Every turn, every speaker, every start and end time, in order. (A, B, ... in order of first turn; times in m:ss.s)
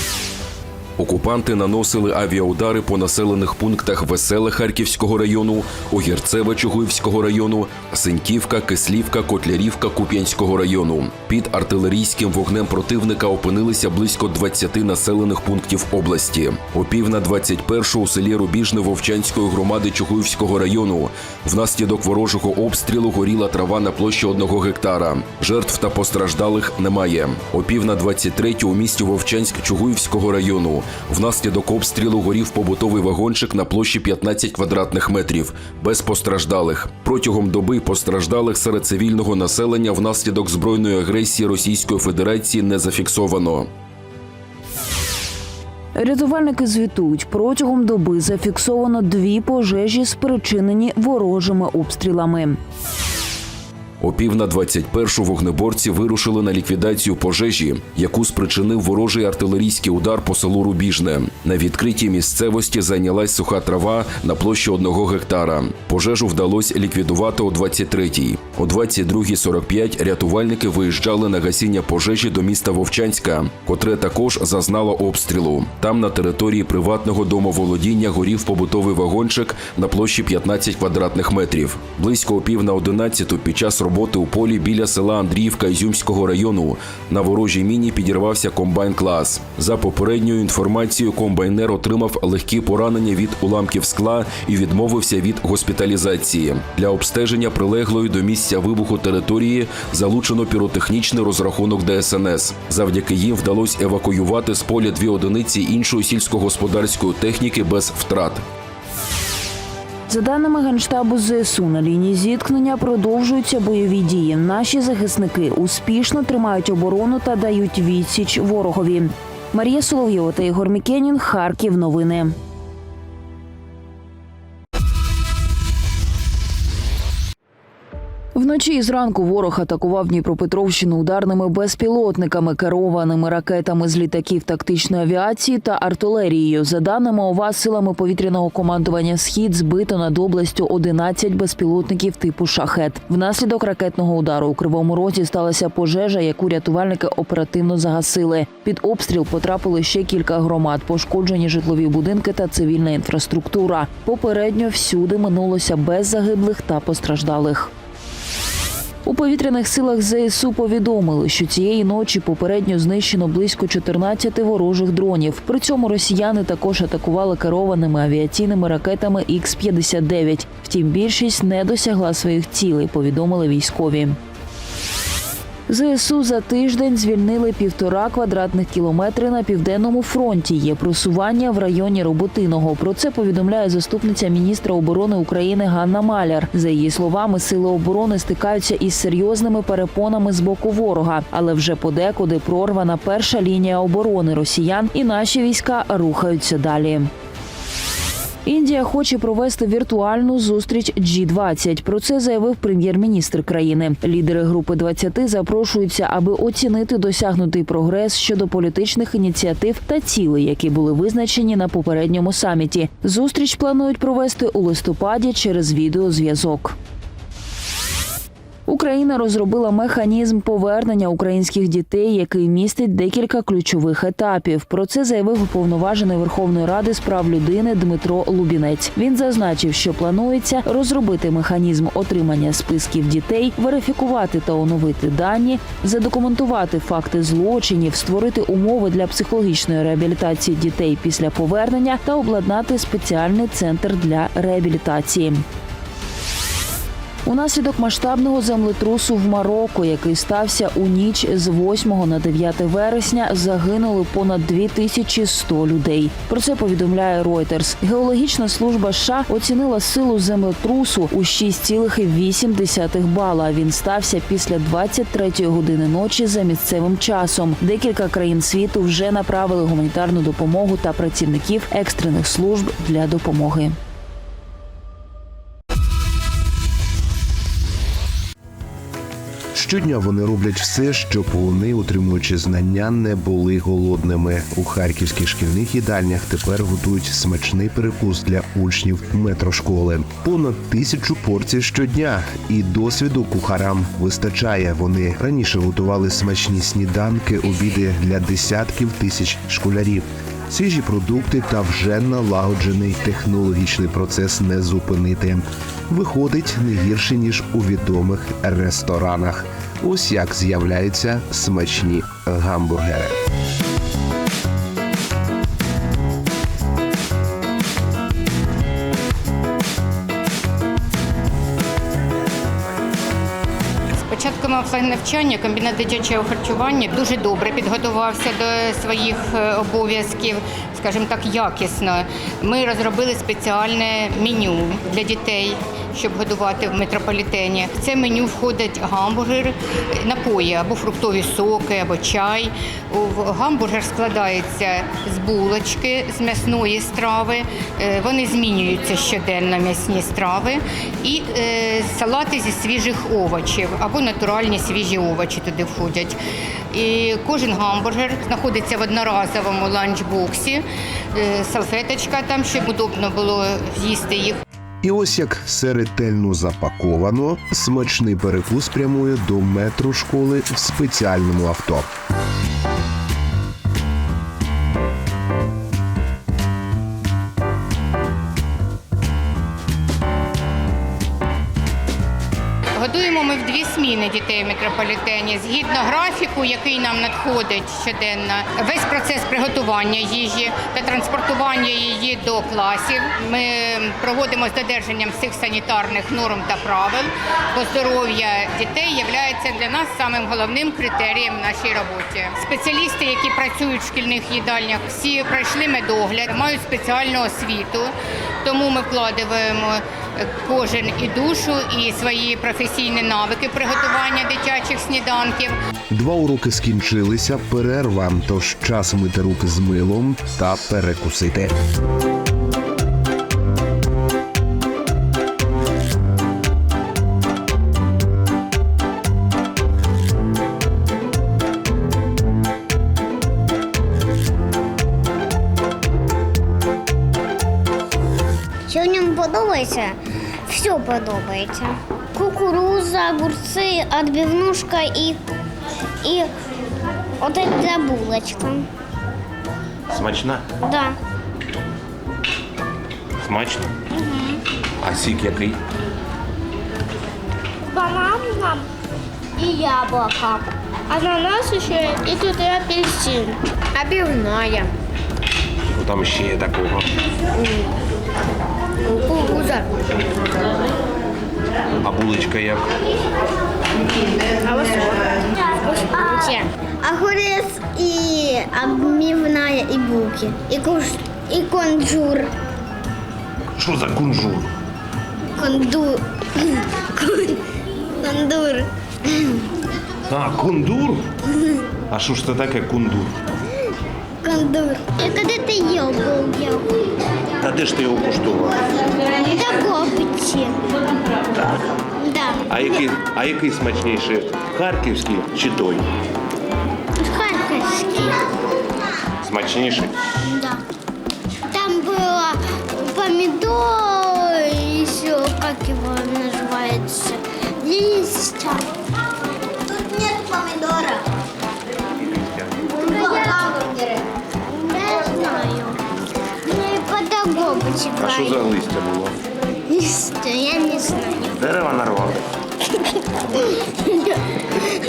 0:01.0-0:43.7 A
0:46.0-0:52.6 B
0:54.0-1:48.4 A
1:50.1-2:02.3 B
2:08.4-2:37.7 B
2:39.0-2:54.2 B
2:55.7-3:17.1 B
3:18.4-3:36.7 B
3:38.7-4:05.4 B
4:07.2-4:33.8 B
4:39.5-5:13.2 C
5:24.1-5:56.2 D
5:56.7-6:00.6 D
6:01.1-6:04.4 D
6:04.8-6:11.9 C
6:22.8-6:47.9 D
6:48.4-6:55.5 D
6:55.9-7:01.6 C
7:18.7-7:20.0 E
7:20.5-7:25.2 E
7:26.0-7:26.3 E
7:27.2-7:28.7 E
7:29.9-7:30.4 F
7:30.6-7:31.0 E
7:33.2-7:33.7 F
7:33.9-7:34.4 E
7:34.8-7:35.6 F
7:37.7-7:38.6 E
7:39.4-7:44.7 E
7:45.8-7:46.8 F
7:47.4-7:47.7 E
7:48.9-7:49.7 E
7:51.8-7:52.6 F
7:54.4-7:54.8 E
7:55.6-8:02.3 E
8:03.6-8:04.4 F
8:05.4-8:07.4 E
8:08.0-8:08.7 E
8:10.1-8:11.0 F
8:11.9-8:13.1 F
8:14.2-8:16.7 E
8:17.4-8:18.6 F
8:19.3-8:20.6 E
8:22.0-8:22.8 E
8:22.5-8:25.8 F
8:27.0-8:28.2 E
8:29.2-8:29.9 F
8:30.3-8:30.6 E
8:31.5-8:38.6 E
8:39.7-8:40.9 E
8:42.6-8:44.0 E
8:44.5-8:45.8 E
8:46.4-8:48.5 E
8:48.0-8:49.1 F
8:49.7-8:51.4 E
8:51.4-8:52.2 F